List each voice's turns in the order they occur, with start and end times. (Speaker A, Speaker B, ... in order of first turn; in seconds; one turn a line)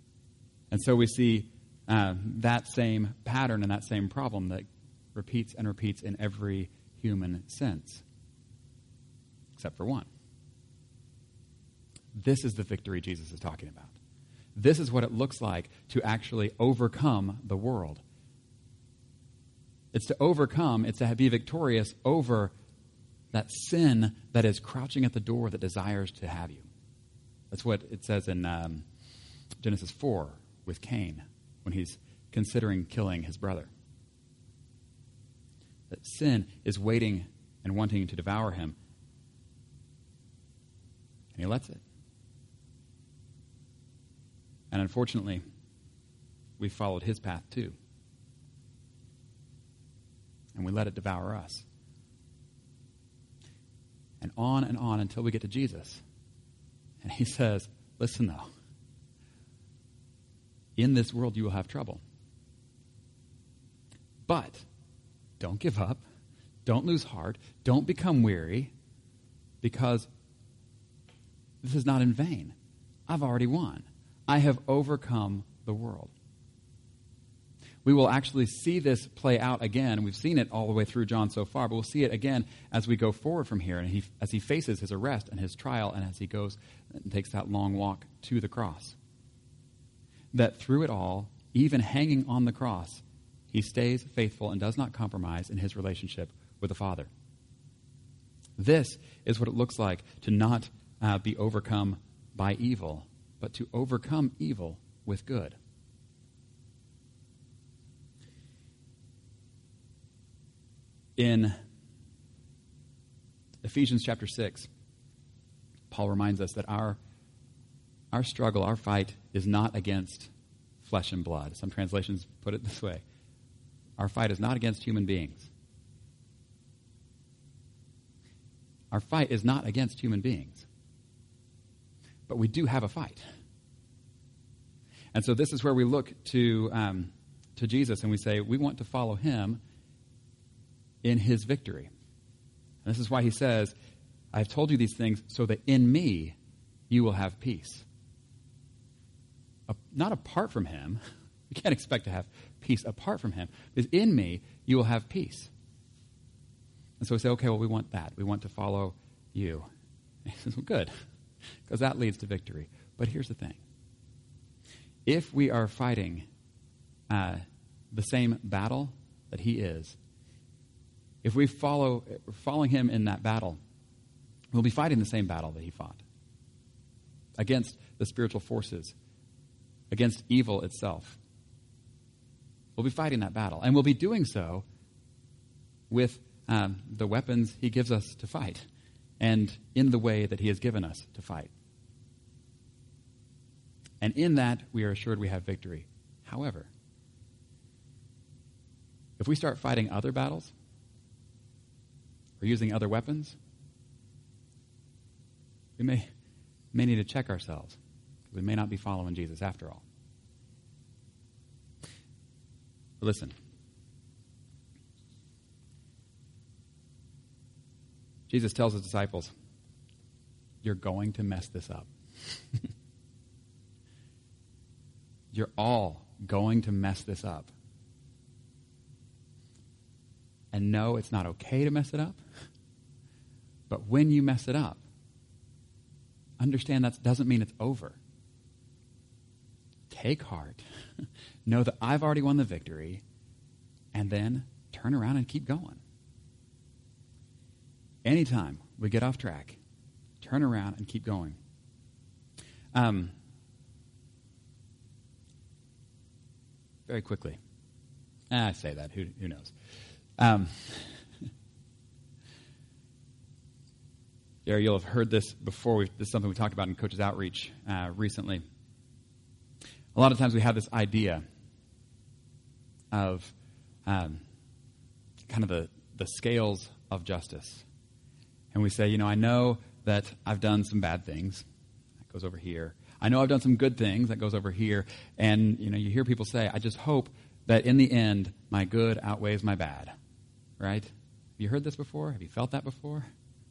Speaker A: 0.7-8.0
Speaker A: 9.6-10.1
Speaker A: 12.1-13.9
Speaker A: 14.6-18.0
Speaker A: 19.9-22.5
Speaker A: 23.3-26.7
Speaker A: 27.5-28.9
Speaker A: 29.6-33.7
Speaker A: 35.9-38.8
Speaker A: 41.3-41.8
Speaker A: 44.7-45.4
Speaker A: 46.6-47.8
Speaker A: 50.5-51.7
Speaker A: 54.2-56.0
Speaker A: 57.0-58.5
Speaker A: 60.8-62.0
Speaker A: 64.3-64.7
Speaker A: 65.4-66.0
Speaker A: 66.7-68.7
Speaker A: 69.6-70.1
Speaker A: 71.6-72.5
Speaker A: 73.1-76.1
Speaker A: 77.8-89.0
Speaker A: 90.3-97.1
Speaker A: 98.6-105.6
Speaker A: 111.2-111.6
Speaker A: 113.6-114.7
Speaker A: 115.9-117.0
Speaker A: 118.1-123.0
Speaker A: 124.0-125.5
Speaker A: 128.9-130.7
Speaker A: 132.3-133.2
Speaker A: 135.1-139.6
Speaker A: 141.0-141.9
Speaker A: 142.8-143.7
Speaker A: 144.3-146.4
Speaker A: 146.9-147.9
Speaker A: 149.7-155.5
Speaker A: 157.0-159.7
Speaker A: 160.2-160.9
Speaker A: 161.7-163.6
Speaker A: 165.1-166.3
Speaker A: 167.1-170.0
Speaker A: 171.2-173.6
Speaker A: 174.5-176.0
Speaker A: 177.4-178.9
Speaker A: 179.9-181.2
Speaker A: 182.8-184.7
Speaker A: 185.9-188.7
Speaker A: 189.2-191.5
Speaker A: 194.0-196.7
Speaker A: 199.2-200.5
Speaker A: 202.4-203.4
Speaker A: 205.8-206.1
Speaker A: 206.7-207.8
Speaker A: 208.3-209.8
Speaker A: 213.0-213.3
Speaker A: 218.3-219.3
Speaker A: 220.6-221.9
Speaker A: 225.3-227.5
Speaker A: 230.5-232.2
Speaker A: 233.7-234.8
Speaker A: 236.4-238.0
Speaker A: 239.9-240.7
Speaker A: 241.5-243.0
Speaker A: 243.9-245.8
Speaker A: 248.1-249.6
Speaker A: 250.2-251.4
Speaker A: 252.7-253.1
Speaker A: 256.9-257.4
Speaker A: 258.3-259.5
Speaker A: 260.2-261.0
Speaker A: 264.5-268.4
Speaker A: 269.9-271.2
Speaker A: 272.9-273.3
Speaker A: 273.9-274.2
Speaker A: 275.3-277.7
Speaker A: 278.5-281.4
Speaker A: 282.0-289.9
Speaker A: 290.6-293.1